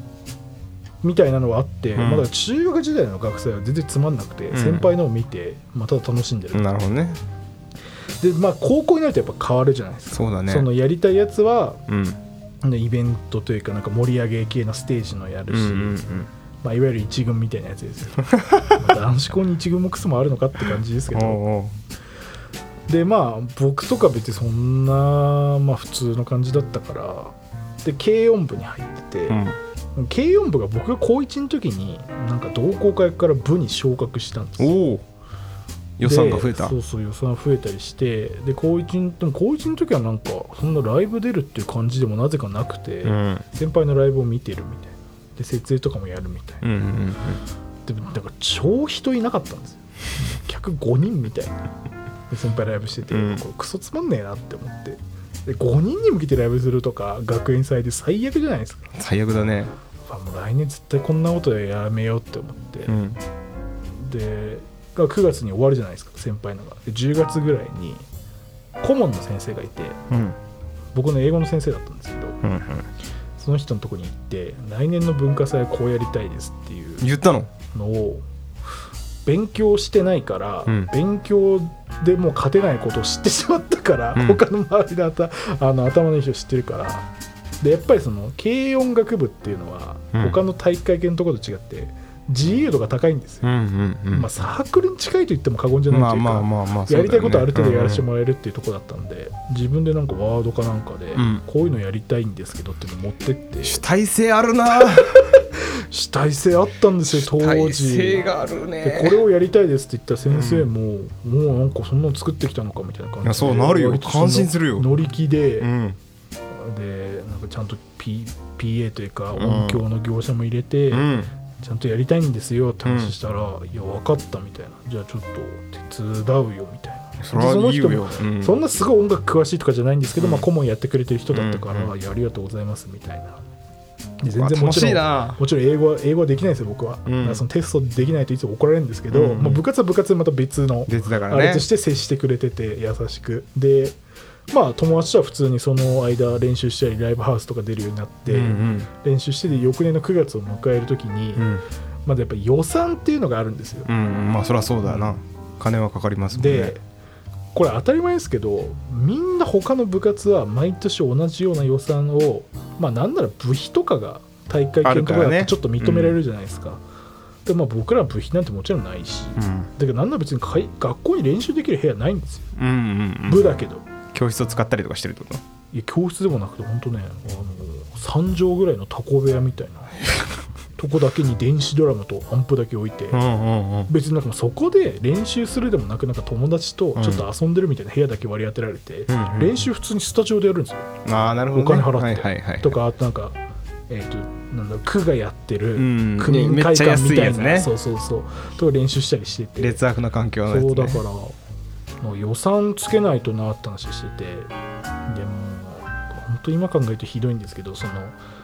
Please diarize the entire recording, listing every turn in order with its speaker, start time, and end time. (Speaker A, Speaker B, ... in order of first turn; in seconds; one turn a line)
Speaker A: 1.0-6.7
Speaker B: 1.9-2.3
Speaker B: 4.5-4.9
Speaker B: 6.5-7.2
Speaker A: 8.2-11.8
Speaker B: 10.1-10.7
Speaker B: 11.9-12.2
Speaker A: 12.6-21.4
Speaker B: 15.5-16.3
Speaker B: 18.3-18.7
Speaker B: 21.1-21.7
Speaker A: 22.9-29.4
Speaker B: 29.3-29.6
Speaker A: 29.9-34.7
Speaker B: 34.6-35.0
Speaker B: 36.0-36.7
Speaker A: 36.0-46.7
Speaker B: 43.0-43.4
Speaker B: 46.6-47.4
Speaker A: 47.9-51.6
Speaker A: 52.3-58.9
Speaker B: 53.1-53.4
Speaker B: 59.0-59.7
Speaker A: 60.0-63.0
Speaker B: 62.9-63.2
Speaker A: 63.9-68.1
Speaker A: 68.8-70.0
Speaker B: 70.1-70.3
Speaker A: 70.9-72.4
Speaker B: 72.4-72.9
Speaker A: 73.4-77.1
Speaker B: 77.0-77.5
Speaker A: 77.7-78.2
Speaker A: 79.2-87.1
Speaker B: 84.2-84.4
Speaker A: 87.6-93.5
Speaker B: 93.4-94.3
Speaker A: 94.1-103.8
Speaker B: 95.9-98.0
Speaker B: 101.1-101.4
Speaker B: 103.6-105.3
Speaker A: 105.9-108.2
Speaker B: 107.1-109.2
Speaker A: 108.8-115.7
Speaker B: 110.3-110.7
Speaker B: 113.2-114.9
Speaker B: 115.6-116.0
Speaker A: 116.5-133.4
Speaker B: 119.3-119.8
Speaker B: 120.9-121.3
Speaker B: 122.8-123.1
Speaker B: 127.2-128.5
Speaker B: 130.2-130.5
Speaker B: 131.3-131.9
Speaker A: 134.2-144.0
Speaker B: 134.3-135.4
Speaker B: 137.1-137.4
Speaker B: 139.1-139.6
Speaker B: 140.9-141.6
Speaker A: 144.5-151.5
Speaker B: 148.3-148.9
Speaker B: 151.3-151.6
Speaker A: 152.1-153.9
Speaker B: 153.9-156.7
Speaker A: 154.8-155.2
Speaker A: 156.3-156.8
Speaker A: 157.5-166.8
Speaker B: 164.8-166.2
Speaker A: 167.4-172.5
Speaker B: 169.4-169.7
Speaker B: 172.6-173.5
Speaker A: 173.3-173.8
Speaker B: 174.1-175.4
Speaker A: 175.7-180.0
Speaker A: 180.8-183.2
Speaker B: 183.1-183.9
Speaker A: 183.9-190.9
Speaker B: 186.9-187.2
Speaker B: 189.1-189.6
Speaker B: 191.0-192.8
Speaker A: 191.5-193.4
Speaker A: 193.9-199.8
Speaker B: 195.8-197.7
Speaker B: 199.6-201.0
Speaker A: 200.5-201.3
Speaker A: 202.0-204.5
Speaker A: 205.1-208.2